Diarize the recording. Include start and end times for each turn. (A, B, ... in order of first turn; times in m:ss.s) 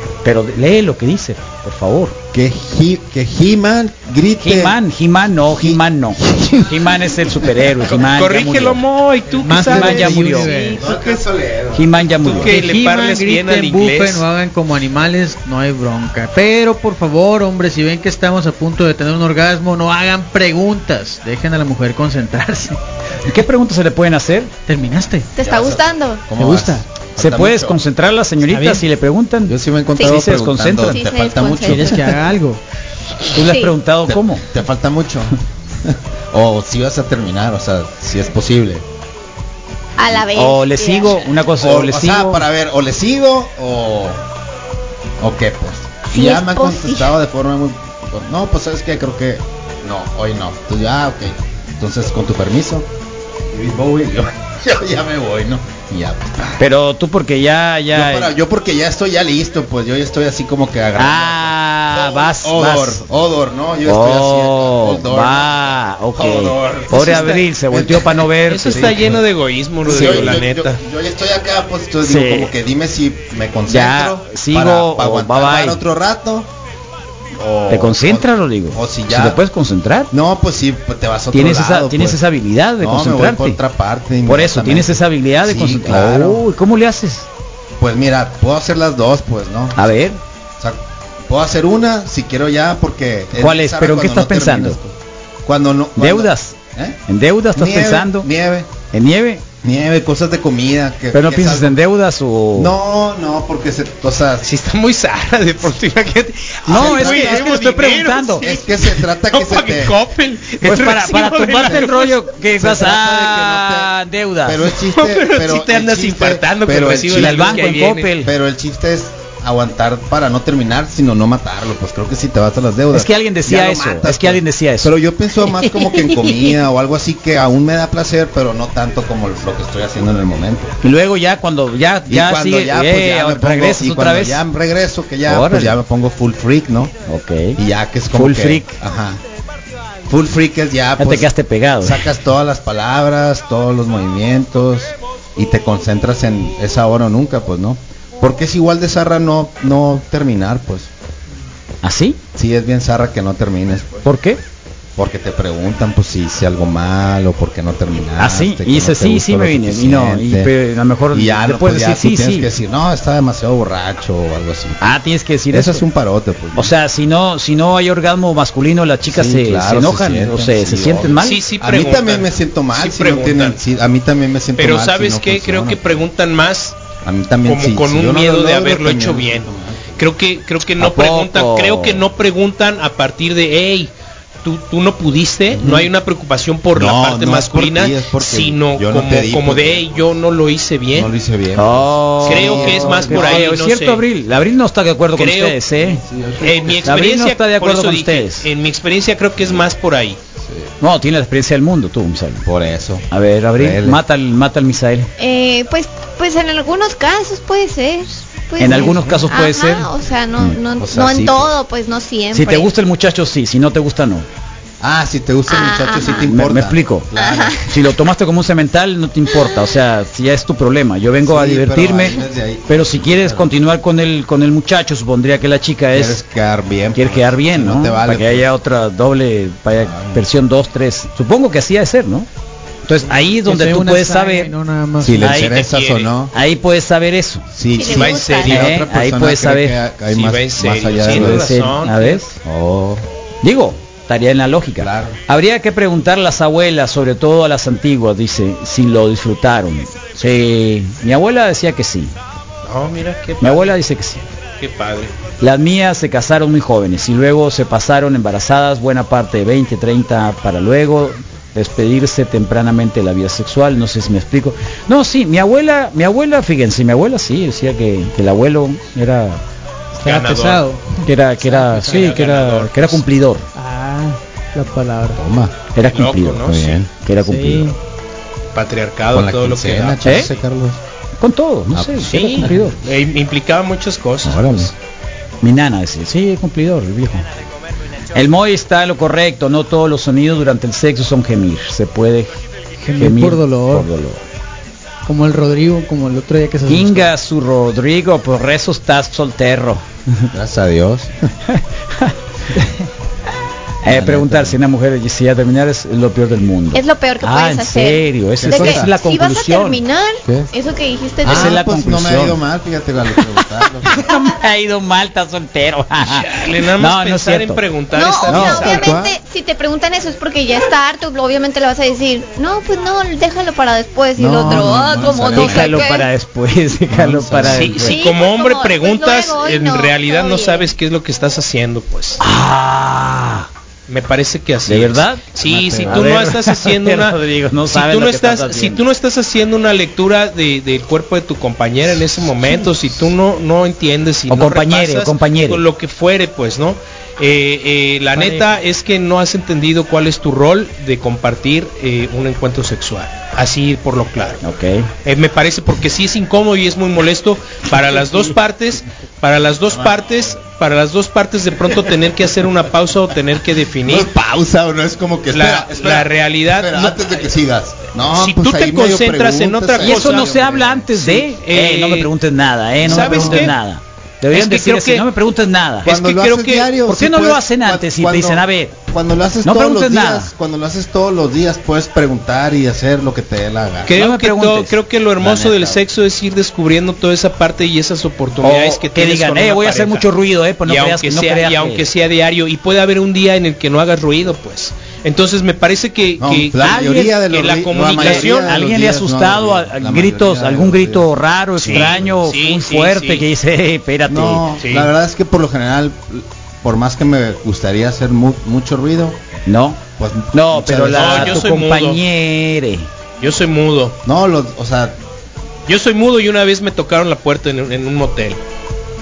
0:00.2-0:02.1 A
0:02.3-0:04.8 B
0:04.4-0:08.8 A
0:05.4-0:07.7 B
0:07.9-0:11.0 C
0:09.4-0:11.0 D
0:09.4-0:10.5 A
0:09.9-0:12.5 B
0:11.7-0:12.6 A
0:12.2-0:14.2 C
0:12.4-0:22.8 D
0:23.2-0:24.5 A
0:24.7-0:25.3 D
0:25.3-0:26.2 E
0:25.4-0:27.8 B
0:26.4-0:26.8 D
0:27.2-0:31.0 A
0:28.4-0:28.8 D
0:29.5-0:32.2 B
0:30.0-0:30.2 E
0:30.8-0:31.9 E
0:31.6-0:32.6 D
0:33.3-0:34.4 A
0:33.4-0:33.7 E
0:34.0-0:38.8 B
0:40.0-0:41.2 E
0:40.3-0:42.4 A
0:41.6-0:44.2 B
0:45.2-0:52.9 B
0:46.1-0:47.1 E
0:53.5-0:56.6 B
0:56.6-0:58.3 A
0:57.9-1:09.2 B
1:01.0-1:03.0 A
1:03.8-1:09.2 A
1:06.9-1:07.5 C
1:08.4-1:10.8 C
1:09.8-1:16.5 B
1:10.0-1:10.2 A
1:12.0-1:12.5 A
1:13.7-1:15.8 A
1:17.4-1:19.4 B
1:17.7-1:20.1 A
1:20.1-1:22.2 B
1:21.3-1:23.6 A
1:22.8-1:26.4 B
1:24.2-1:27.3 A
1:27.8-1:29.9 B
1:29.8-1:30.2 A
1:30.6-1:37.0 B
1:33.4-1:34.8 A
1:36.0-1:36.5 A
1:37.1-1:38.3 A
1:37.5-1:38.7 B
1:38.9-1:39.4 A
1:39.6-1:41.8 B
1:41.1-1:42.7 A
1:42.5-1:44.5 B
1:44.4-1:52.2 C
1:46.6-1:47.7 B
1:46.7-1:48.4 A
1:48.4-1:50.0 B
1:50.6-1:54.6 A
1:51.6-1:51.9 B
1:52.6-2:10.7 B
1:54.8-1:58.1 C
1:57.1-1:58.3 A
2:02.9-2:04.9 A
2:05.6-2:06.6 E
2:10.8-2:14.4 A
2:12.1-2:16.9 B
2:15.3-2:15.8 A
2:17.1-2:17.6 A
2:17.5-2:19.2 B
2:18.1-2:18.7 A
2:20.1-2:30.9 B
2:21.0-2:22.0 A
2:31.8-2:32.2 A
2:32.3-2:34.0 B
2:34.0-2:34.4 A
2:35.0-2:40.5 B
2:38.2-2:42.5 A
2:41.1-2:44.8 B
2:44.8-2:45.8 A
2:45.5-2:46.7 B
2:46.6-2:51.4 A
2:49.1-2:56.0 B
2:51.2-2:53.6 C
2:54.6-2:56.8 C
2:57.0-3:00.1 B
2:57.4-3:03.9 C
3:00.8-3:02.0 A
3:04.4-3:11.1 C
3:05.5-3:05.9 B
3:06.7-3:10.0 B
3:10.9-3:13.6 B
3:11.6-3:16.0 A
3:12.2-3:14.0 C
3:15.2-3:15.6 C
3:15.8-3:16.9 B
3:16.4-3:20.2 C
3:16.8-3:18.4 A
3:20.8-3:22.4 A
3:22.4-3:24.0 B
3:23.1-3:25.1 A
3:25.2-3:32.7 E
3:28.6-3:30.5 A
3:28.6-3:29.3 B
3:30.8-3:31.5 B
3:32.3-3:34.2 A
3:34.8-3:37.7 B
3:35.5-3:36.3 E
3:36.1-3:37.1 A
3:37.1-3:37.6 E
3:37.6-3:46.2 A
3:41.2-3:43.6 B
3:45.9-3:48.5 B
3:46.9-3:52.3 A
3:49.8-3:50.2 B
3:52.8-3:54.5 A
3:53.4-3:55.3 D
3:55.0-3:56.3 B
3:55.2-3:55.6 A
3:55.4-3:56.1 C
3:56.3-3:57.5 A
3:57.5-4:01.6 B
3:57.7-3:58.6 E
3:57.8-3:58.7 C
3:58.4-3:59.7 A
4:00.1-4:02.3 C
4:01.1-4:02.3 A
4:02.4-4:03.0 B
4:03.4-4:12.1 A
4:04.8-4:05.2 B
4:12.6-4:13.8 C
4:13.4-4:14.2 A
4:14.6-4:15.1 C
4:15.4-4:29.4 A
4:29.9-4:32.2 D
4:30.0-4:30.6 C
4:31.0-4:33.4 A
4:31.5-4:33.0 C
4:33.5-4:35.2 D
4:35.1-4:35.5 B
4:35.7-4:37.7 A
4:35.9-4:36.8 C
4:36.5-4:36.9 B
4:37.2-4:37.8 D
4:38.5-4:40.4 C
4:39.1-4:40.8 B
4:41.2-4:42.8 A
4:41.7-4:42.5 B
4:42.1-4:44.7 C
4:44.2-4:44.7 B
4:45.4-4:47.2 A
4:48.1-4:52.3 A
4:52.8-4:53.9 D
4:53.0-4:54.2 A
4:55.0-4:57.1 D
4:56.7-5:00.3 A
5:00.3-5:01.3 B
5:01.5-5:02.7 A
5:03.8-5:09.8 A
5:03.8-5:04.6 B
5:06.7-5:11.6 E
5:08.4-5:08.9 B
5:10.2-5:10.5 B
5:11.2-5:12.4 A
5:11.2-5:14.0 B
5:13.8-5:17.6 A
5:16.0-5:18.9 C
5:17.9-5:26.1 E
5:18.3-5:18.7 A
5:18.4-5:19.2 B
5:24.2-5:25.9 B
5:25.3-5:28.0 A
5:26.9-5:27.9 B
5:27.4-5:32.2 C
5:27.8-5:30.7 E
5:32.2-5:33.5 A
5:33.9-5:54.4 C
5:34.7-5:35.2 A
5:35.4-5:36.3 B
5:35.8-5:38.8 A
5:44.3-5:45.6 A
5:48.1-5:48.4 A
5:54.4-5:54.9 A
5:55.0-6:04.1 C
5:59.8-6:00.1 B
6:03.8-6:10.9 B
6:05.3-6:07.2 C
6:08.1-6:12.1 C
6:09.8-6:15.9 A
6:12.8-6:13.5 C
6:12.8-6:13.5 B
6:14.3-6:15.0 C
6:15.8-6:16.7 C
6:15.8-6:24.0 B
6:16.8-6:18.7 A
6:19.4-6:20.3 A
6:23.8-6:30.1 C
6:23.9-6:24.7 A
6:25.2-6:25.8 B
6:28.4-6:31.8 A
6:30.6-6:38.5 C
6:36.2-6:41.1 B
6:36.6-6:37.1 A
6:38.0-6:44.4 A
6:41.6-6:43.2 C
6:41.6-6:42.2 B
6:44.0-6:49.2 B
6:44.6-6:44.9 C
6:49.5-6:49.8 A
6:50.0-6:51.4 B
6:50.3-6:52.9 A
6:50.9-6:52.0 C
6:53.2-6:54.0 C
6:54.0-6:55.0 B
6:55.7-6:58.4 C